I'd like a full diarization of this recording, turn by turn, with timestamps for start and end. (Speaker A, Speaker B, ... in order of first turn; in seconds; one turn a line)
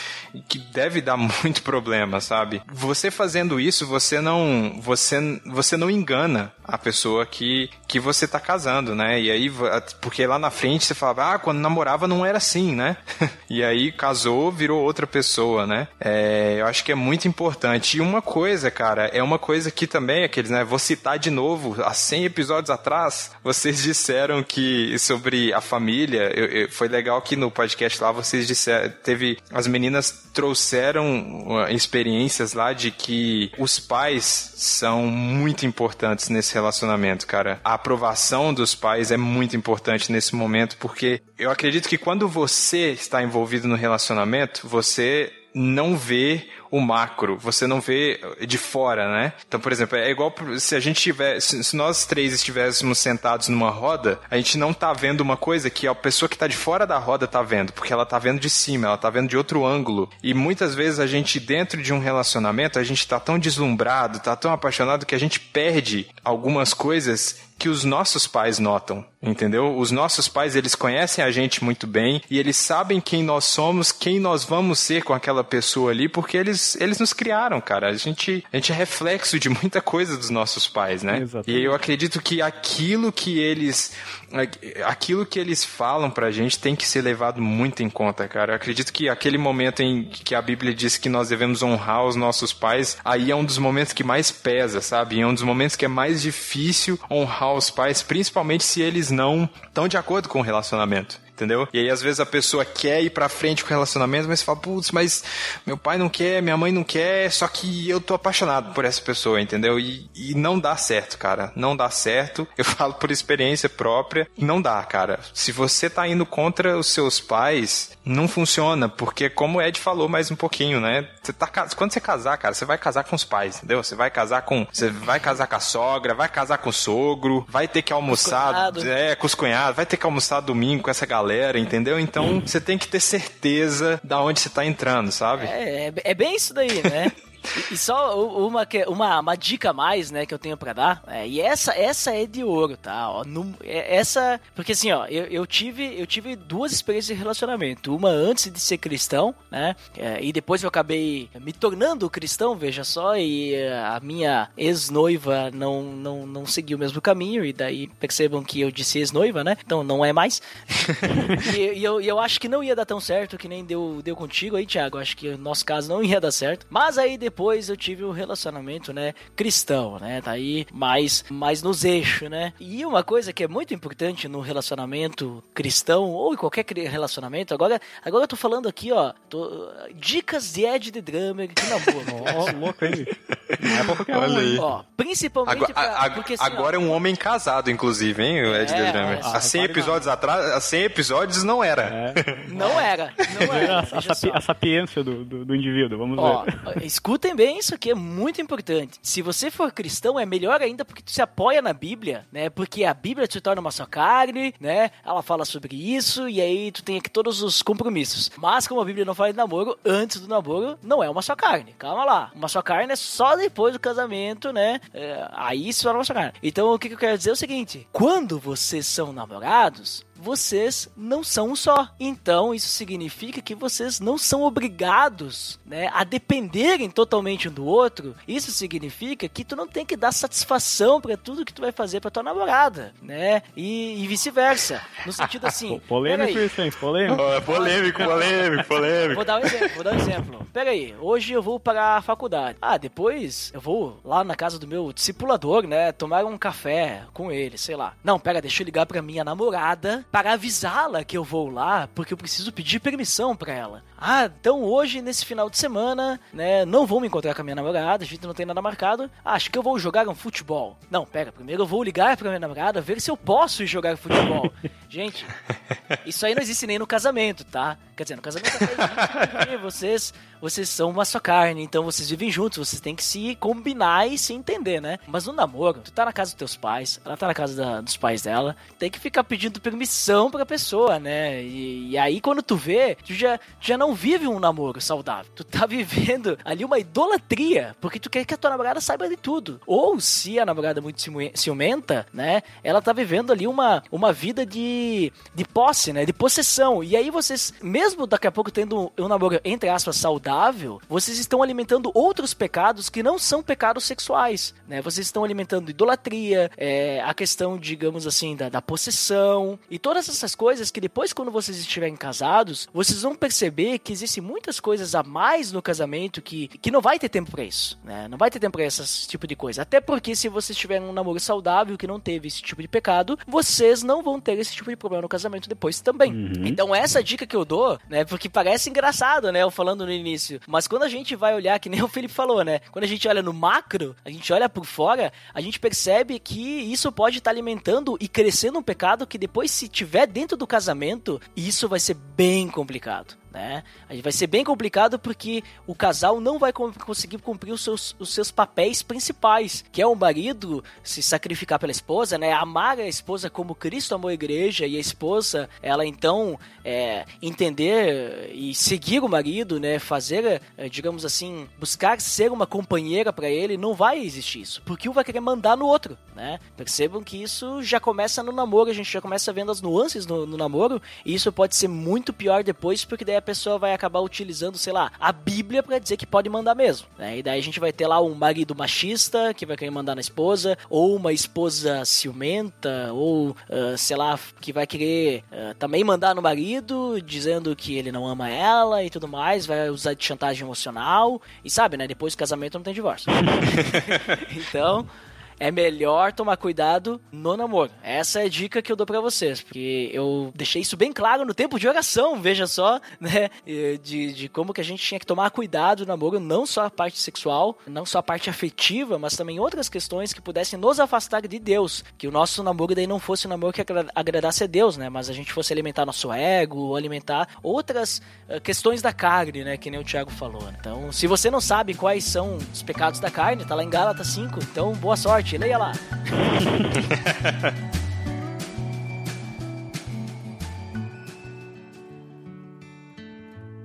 Speaker A: 0.3-135.5
Speaker B: 81.1-81.8
Speaker C: 128.1-128.9
Speaker C: 135.4-182.5
Speaker B: 182.1-184.7
Speaker A: 183.3-184.6
Speaker C: 184.5-187.0
Speaker A: 185.5-192.5
Speaker C: 188.5-189.9
Speaker B: 189.2-190.1
Speaker B: 191.9-192.8
Speaker C: 192.5-194.4
Speaker B: 193.5-196.5
Speaker C: 196.2-236.5
Speaker B: 235.7-237.3
Speaker A: 237.1-239.8
Speaker C: 237.4-265.3
Speaker C: 266.0-394.9
Speaker B: 326.1-326.6
Speaker C: 395.4-425.8
Speaker A: 426.8-427.5